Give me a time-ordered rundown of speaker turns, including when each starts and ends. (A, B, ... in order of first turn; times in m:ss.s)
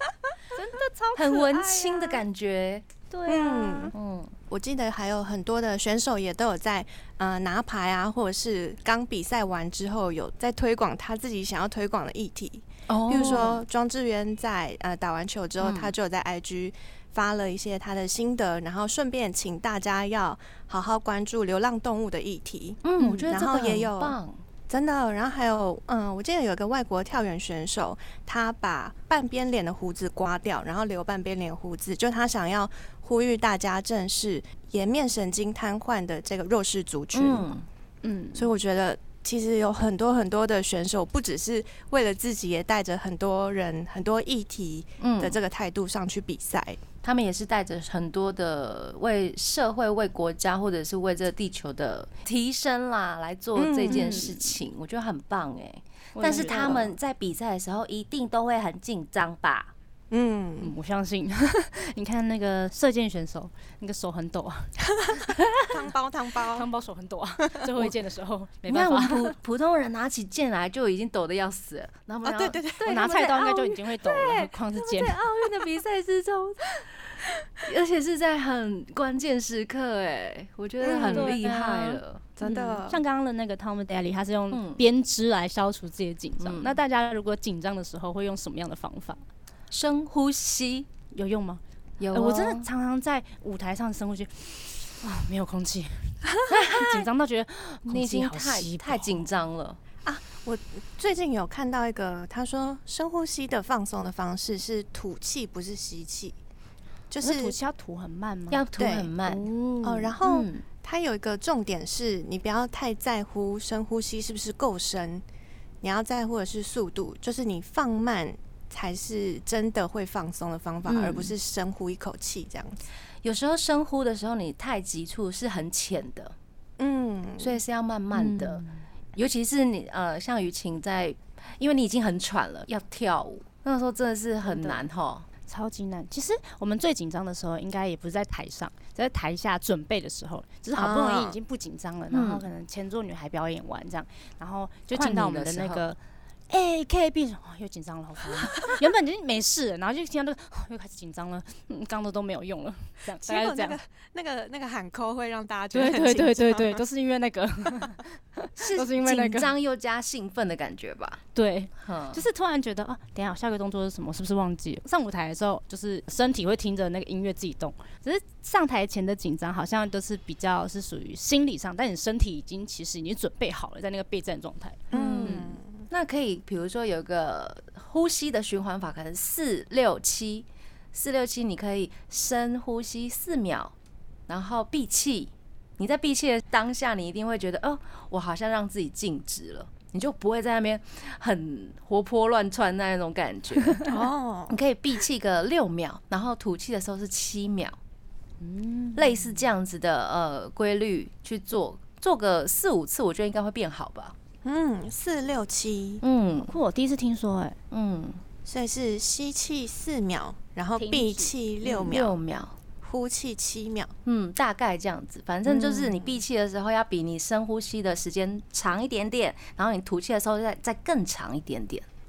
0:00.5-0:02.2 A
0:01.2-0:03.0 B
0:03.1-0:03.9 A
0:03.3-0:03.9 C
0:03.9-0:04.4 B
0:04.5-0:24.2 C
0:12.9-0:13.6 B
0:15.6-0:15.9 B
0:22.8-0:24.4 B
0:24.7-0:37.5 C
0:37.1-0:37.6 B
0:38.0-0:38.5 A
0:38.4-0:46.8 C
0:45.0-0:45.4 B
0:47.0-0:59.7 B
0:53.6-0:54.2 C
0:53.9-0:54.5 A
0:56.2-0:56.9 A
1:00.1-1:00.7 C
1:00.6-1:05.8 A
1:05.7-1:06.7 C
1:06.5-1:09.3 A
1:08.7-1:22.3 B
1:12.2-1:12.8 C
1:12.8-1:15.2 A
1:20.8-1:21.4 C
1:21.0-1:29.2 A
1:22.4-1:23.0 C
1:24.5-1:24.8 B
1:26.4-1:26.8 B
1:29.7-1:30.9 B
1:31.1-1:31.6 A
1:32.0-1:32.7 B
1:32.1-1:39.3 A
1:36.5-1:37.1 B
1:37.9-1:39.8 B
1:40.0-1:46.4 C
1:47.1-1:47.6 C
1:47.2-1:48.6 A
1:48.5-1:49.5 B
1:48.8-1:49.1 C
1:49.2-1:50.1 A
1:49.8-1:55.2 C
1:50.2-1:50.6 B
1:55.8-2:02.8 C
2:00.9-2:01.3 B
2:03.2-2:06.4 B
2:06.8-2:07.6 C
2:07.4-2:15.3 B
2:08.1-2:08.8 A
2:14.4-2:14.8 A
2:15.5-2:26.0 A
2:20.8-2:21.4 C
2:22.1-2:22.5 B
2:24.9-2:25.8 B
2:26.5-2:33.8 A
2:33.2-2:36.8 C
2:35.7-2:39.5 A
2:38.6-2:41.2 B
2:41.4-2:55.5 A
2:41.8-2:42.2 B
2:54.9-2:55.8 C
2:54.9-3:03.7 B
3:04.3-3:13.9 B
3:13.9-3:14.6 C
3:14.5-3:17.8 B
3:18.4-3:19.4 A
3:19.0-3:24.2 B
3:24.4-3:26.0 C
3:26.0-3:26.5 B
3:26.4-3:27.6 A
3:27.7-3:28.2 B
3:28.4-3:32.2 C
3:30.8-3:31.3 A
3:31.6-3:32.6 B
3:32.8-3:33.9 C
3:34.1-3:41.9 B
3:35.5-3:36.2 C